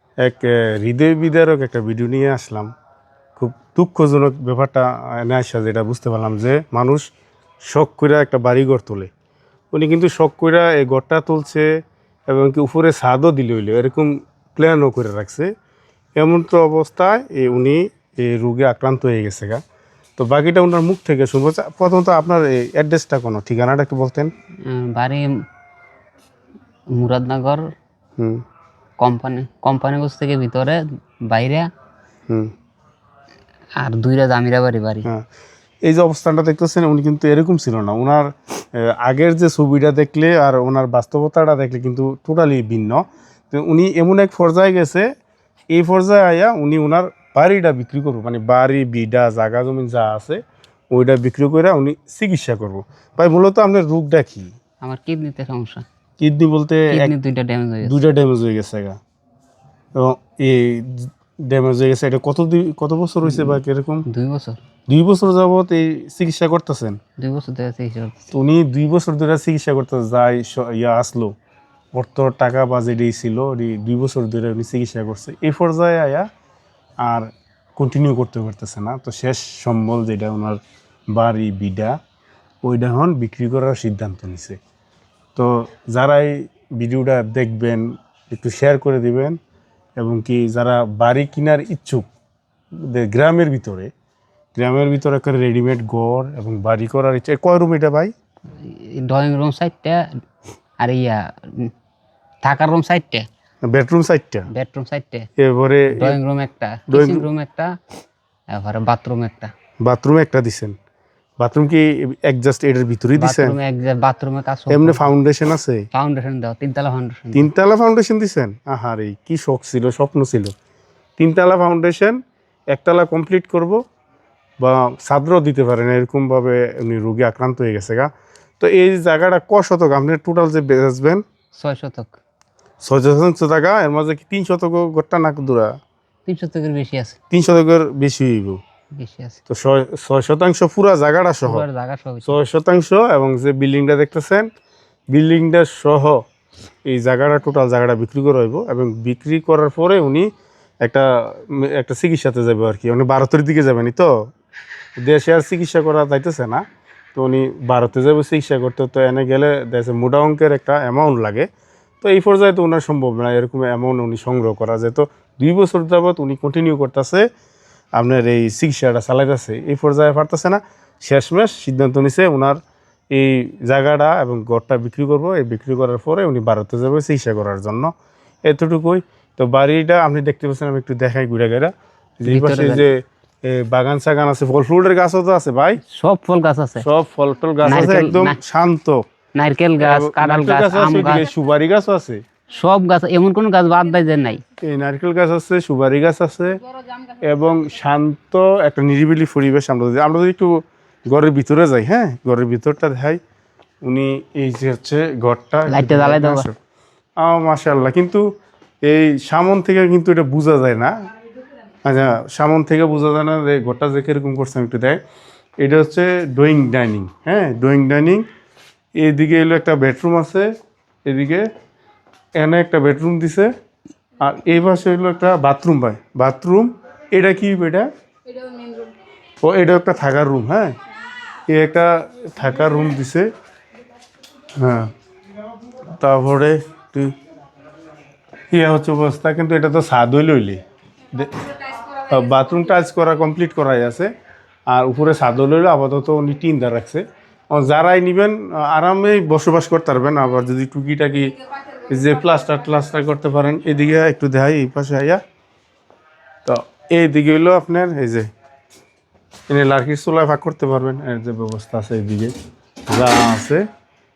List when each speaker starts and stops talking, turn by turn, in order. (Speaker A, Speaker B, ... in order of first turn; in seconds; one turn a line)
Speaker A: 0.2-2.7
Speaker A: 3.4-7.1
Speaker A: 7.7-9.1
Speaker A: 9.7-11.7
Speaker A: 12.3-15.5
Speaker A: 16.2-19.6
Speaker A: 20.2-24.3
Speaker B: 24.6-25.3
Speaker B: 26.9-27.6
Speaker A: 28.2-28.4
Speaker B: 29.0-31.7
Speaker B: 33.8-35.1
Speaker A: 35.8-45.1
Speaker A: 45.7-54.5
Speaker B: 54.8-55.9
Speaker A: 56.2-57.1
Speaker B: 56.9-58.0
Speaker A: 57.8-59.0
Speaker A: 60.0-64.1
Speaker B: 63.3-64.6
Speaker A: 64.9-67.0
Speaker B: 67.2-68.3
Speaker A: 68.3-71.3
Speaker A: 71.9-76.3
Speaker A: 77.0-80.6
Speaker A: 81.1-82.0
Speaker A: 82.6-84.6
Speaker A: 85.3-89.4
Speaker A: 90.0-92.1
Speaker A: 92.8-93.9
Speaker A: 94.6-98.1
Speaker B: 98.6-100.1
Speaker B: 100.8-101.7
Speaker B: 102.4-103.3
Speaker A: 103.7-104.5
Speaker B: 104.5-105.3
Speaker A: 105.4-106.2
Speaker B: 105.9-107.8
Speaker A: 106.9-107.3
Speaker B: 108.5-109.5
Speaker A: 109.8-110.8
Speaker A: 111.4-113.6
Speaker B: 113.2-115.1
Speaker A: 114.7-115.9
Speaker B: 115.9-117.5
Speaker A: 117.3-120.5
Speaker A: 121.2-122.2
Speaker A: 122.7-123.8
Speaker A: 124.6-131.2
Speaker B: 131.6-132.2
Speaker A: 132.8-135.7
Speaker B: 136.3-137.2
Speaker A: 137.3-138.6
Speaker B: 138.9-139.4
Speaker A: 139.5-141.7
Speaker B: 141.4-142.4
Speaker A: 142.2-144.5
Speaker A: 145.1-146.2
Speaker A: 146.9-150.3
Speaker A: 150.8-154.1
Speaker A: 155.0-156.6
Speaker A: 157.2-161.5
Speaker A: 162.0-167.2
Speaker A: 168.0-172.6
Speaker A: 173.1-177.9
Speaker A: 178.5-185.8
Speaker B: 182.3-182.9
Speaker B: 185.8-186.9
Speaker A: 186.8-189.0
Speaker B: 187.7-188.4
Speaker B: 189.4-191.3
Speaker A: 189.8-192.2
Speaker B: 192.5-194.4
Speaker A: 194.6-196.6
Speaker A: 197.2-203.2
Speaker A: 203.8-206.6
Speaker B: 205.7-206.4
Speaker A: 207.2-208.2
Speaker A: 208.8-210.9
Speaker A: 211.8-215.0
Speaker A: 215.6-218.3
Speaker A: 219.0-220.5
Speaker A: 221.1-221.5
Speaker A: 222.4-223.5
Speaker A: 224.2-227.9
Speaker A: 229.4-230.7
Speaker A: 231.5-233.3
Speaker A: 234.6-234.9
Speaker A: 235.9-237.2
Speaker A: 238.5-240.6
Speaker A: 241.1-244.1
Speaker A: 244.7-255.2
Speaker A: 256.4-258.3
Speaker A: 259.5-262.4
Speaker A: 262.9-263.7